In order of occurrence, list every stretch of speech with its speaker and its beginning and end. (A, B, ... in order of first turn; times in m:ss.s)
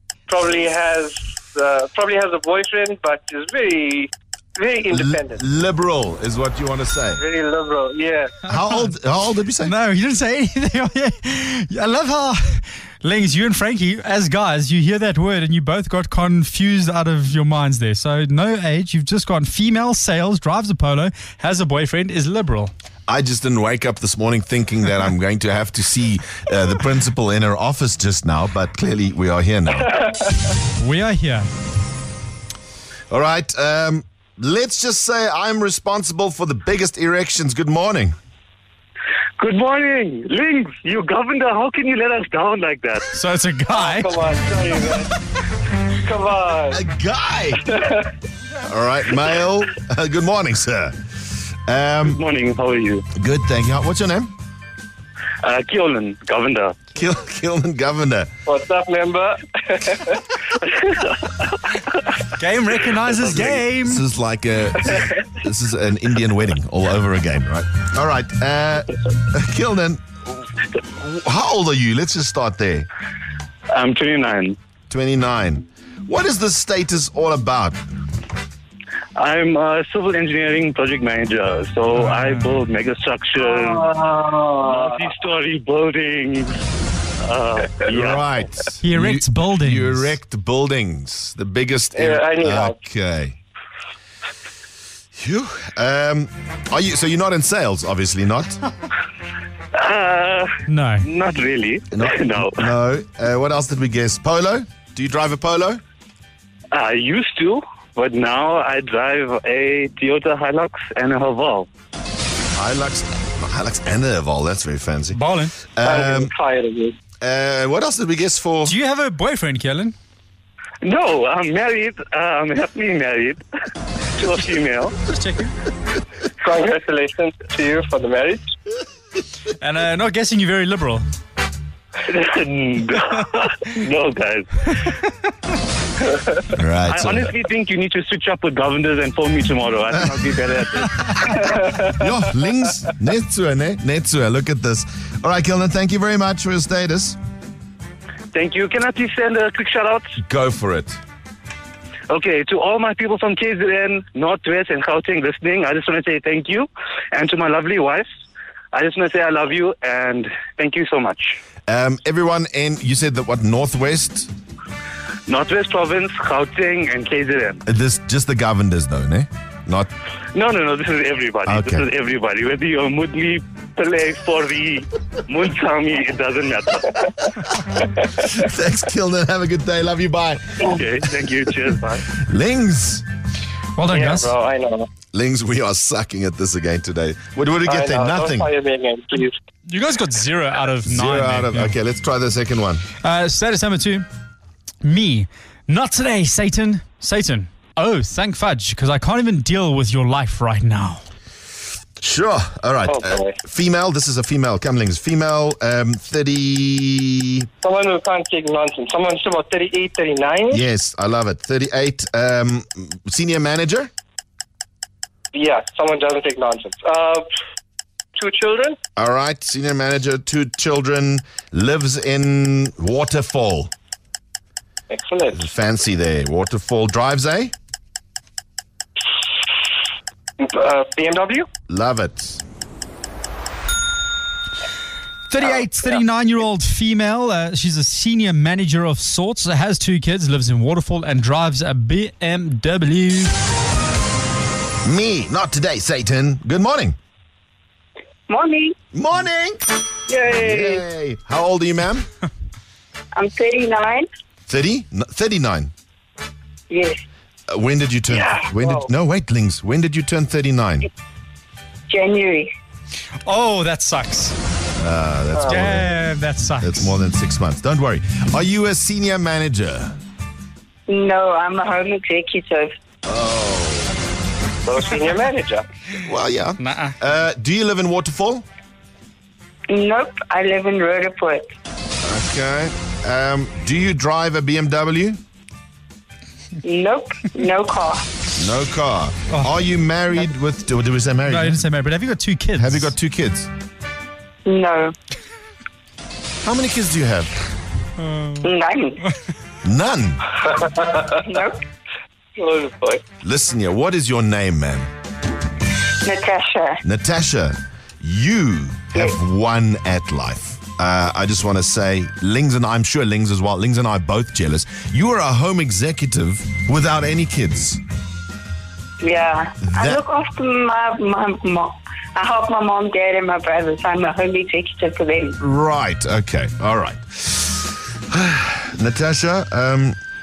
0:00.3-0:05.4 A
0:04.9-0:07.2 B
0:07.2-0:08.3 A
0:08.4-0:09.7 B
0:08.5-0:08.9 C
0:09.6-0:22.7 C
0:23.1-0:29.9 B
0:30.0-0:30.3 A
0:30.8-0:31.5 C
0:33.1-0:38.2 B
0:39.4-0:43.1 D
0:43.1-0:44.2 C
0:43.7-0:45.1 A
0:46.0-0:46.8 A
0:46.7-0:47.6 B
0:47.7-0:48.0 A
0:48.6-0:50.9 B
0:51.6-0:52.2 B
0:52.0-0:53.1 D
0:53.2-0:54.3 B
0:55.4-0:56.8 D
0:56.9-0:58.3 B
0:58.5-1:00.2 A
1:02.4-1:04.0 C
1:03.2-1:12.9 B
1:13.7-1:14.6 D
1:14.9-1:17.8 B
1:19.2-1:23.9 D
1:23.4-1:24.9 A
1:24.6-1:26.6 D
1:27.2-1:28.2 D
1:27.9-1:33.4 B
1:28.8-1:30.1 C
1:31.9-1:32.7 A
1:35.2-1:38.6 B
1:39.7-1:40.5 D
1:40.7-1:41.0 C
1:41.0-1:42.7 D
1:41.9-1:45.8 B
1:46.7-1:51.7 D
1:52.5-1:55.2 B
1:55.1-1:55.5 C
1:55.7-1:56.3 B
1:55.8-1:57.0 A
1:57.2-1:58.7 B
1:58.6-1:59.9 C
2:00.8-2:03.4 D
2:04.2-2:05.0 D
2:05.0-2:05.5 C
2:06.4-2:08.5 A
2:09.6-2:11.0 C
2:12.0-2:14.8 D
2:16.5-2:17.3 B
2:16.9-2:21.4 D
2:21.0-2:27.2 B
2:21.5-2:22.0 A
2:28.3-2:30.1 D
2:30.2-2:31.0 B
2:32.1-2:38.0 D
2:38.7-2:41.4 D
2:41.7-2:44.3 B
2:45.3-2:47.6 D
2:47.6-2:49.9 B
2:50.3-2:57.2 D
2:51.4-2:51.8 B
2:58.1-3:00.7 B
3:00.6-3:02.1 D
3:02.1-3:03.0 B
3:03.8-3:04.3 C
3:03.9-3:04.9 A
3:05.1-3:08.5 B
3:07.7-3:09.4 A
3:09.7-3:11.7 C
3:10.8-3:12.8 B
3:13.0-3:14.1 C
3:14.8-3:21.0 C
3:22.0-3:27.5 B
3:22.9-3:23.3 A
3:27.6-3:30.6 A
3:30.5-3:33.9 B
3:35.3-3:37.2 A
3:38.2-3:38.8 A
3:39.0-3:43.7 B
3:44.9-3:45.4 A
3:45.3-3:47.5 B
3:50.4-3:51.5 A
3:51.7-3:52.4 B
3:55.3-4:03.3 C
4:04.8-4:07.0 B
4:08.3-4:08.7 E
4:08.9-4:09.6 B
4:10.1-4:10.8 E
4:10.3-4:12.0 B
4:13.1-4:14.0 E
4:14.5-4:15.7 B
4:16.7-4:17.0 E
4:17.5-4:20.9 B
4:18.1-4:18.9 A
4:21.9-4:22.5 E
4:23.2-4:24.4 C
4:24.8-4:25.9 B
4:25.4-4:27.0 C
4:26.6-4:30.0 B
4:30.9-4:32.7 E
4:33.0-4:33.9 B
4:34.6-4:35.6 A
4:36.0-4:38.4 B
4:36.6-4:37.0 C
4:39.7-4:41.4 E
4:42.0-4:45.2 B
4:46.6-4:48.0 E
4:48.4-4:51.6 B
4:51.3-4:52.9 C
4:52.6-4:53.5 B
4:54.4-4:54.9 E
4:56.4-4:57.3 B
4:58.4-4:59.0 E
4:59.6-5:00.3 B
5:00.5-5:01.2 A
5:02.4-5:03.0 A
5:03.2-5:04.9 B
5:06.0-5:06.8 E
5:06.8-5:17.8 B
5:19.0-5:25.4 E
5:19.6-5:20.0 B
5:25.4-5:29.9 B